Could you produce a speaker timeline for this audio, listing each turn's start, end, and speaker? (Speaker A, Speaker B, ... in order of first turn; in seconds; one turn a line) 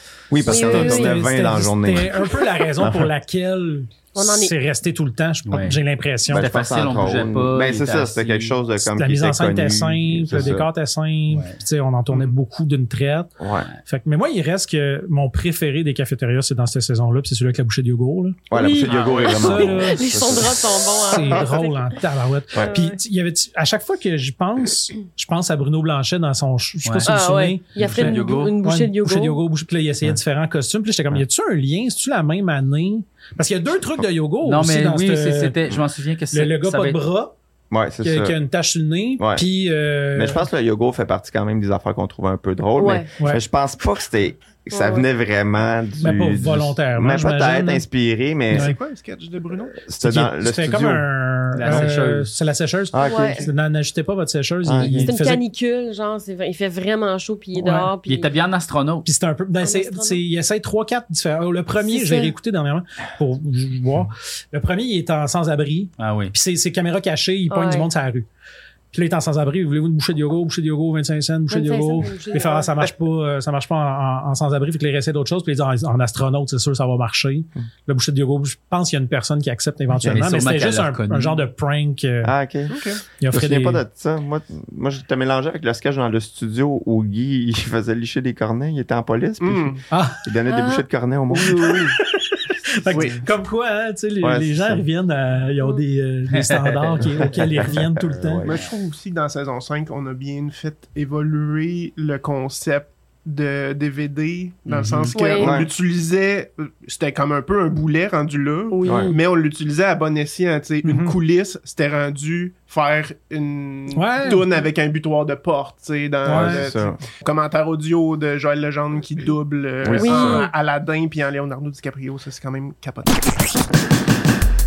Speaker A: 0.3-3.1
Speaker B: 0.5-1.2
Speaker C: 0.5-6.5
Speaker B: 4.2-4.5
Speaker D: 5.5-5.8
Speaker A: 6.3-10.7
Speaker D: 6.3-8.6
Speaker C: 8.8-13.3
Speaker D: 11.3-11.6
Speaker A: 13.4-13.7
Speaker C: 13.9-18.4
Speaker A: 18.5-20.9
Speaker B: 18.5-21.8
Speaker C: 19.4-20.0
Speaker C: 21.1-35.5
Speaker B: 22.6-23.0
Speaker D: 26.9-27.1
Speaker B: 27.1-29.4
Speaker D: 27.8-28.6
Speaker D: 34.4-37.0
Speaker C: 36.3-37.3
Speaker A: 37.7-38.4
Speaker C: 38.0-40.5
Speaker A: 39.2-39.5
Speaker A: 40.1-48.7
Speaker B: 42.8-43.1
Speaker B: 44.7-45.1
Speaker C: 46.0-47.9
Speaker E: 48.5-49.8
Speaker C: 48.5-48.8
Speaker A: 49.8-51.1
Speaker C: 50.0-55.4
Speaker D: 51.5-52.3
Speaker A: 51.6-51.9
Speaker A: 52.9-53.5
Speaker B: 53.0-53.5
Speaker A: 54.6-55.1
Speaker B: 55.0-58.3
Speaker C: 57.6-57.9
Speaker D: 58.1-59.1
Speaker C: 59.0-68.3
Speaker B: 59.6-60.2
Speaker B: 61.8-62.3
Speaker D: 66.0-66.3
Speaker B: 67.5-67.9
Speaker C: 68.9-82.3
Speaker B: 71.5-72.9
Speaker A: 80.0-80.4
Speaker D: 80.0-81.5
Speaker A: 82.2-91.8
Speaker E: 82.7-83.0
Speaker C: 83.2-83.8
Speaker E: 89.4-89.8
Speaker C: 89.9-90.2
Speaker B: 90.5-90.8
Speaker E: 91.4-91.9
Speaker C: 92.8-98.5
Speaker E: 92.9-93.2
Speaker A: 94.2-94.8
Speaker D: 96.3-97.6
Speaker A: 97.2-98.6
Speaker E: 98.4-123.3
Speaker C: 104.8-105.1
Speaker B: 105.1-105.6
Speaker A: 105.4-105.7
Speaker B: 108.7-109.2
Speaker A: 108.8-109.1
Speaker C: 110.8-111.2
Speaker C: 113.9-114.4
Speaker C: 116.2-116.6
Speaker A: 116.3-117.0
Speaker A: 119.8-120.5
Speaker B: 120.0-120.5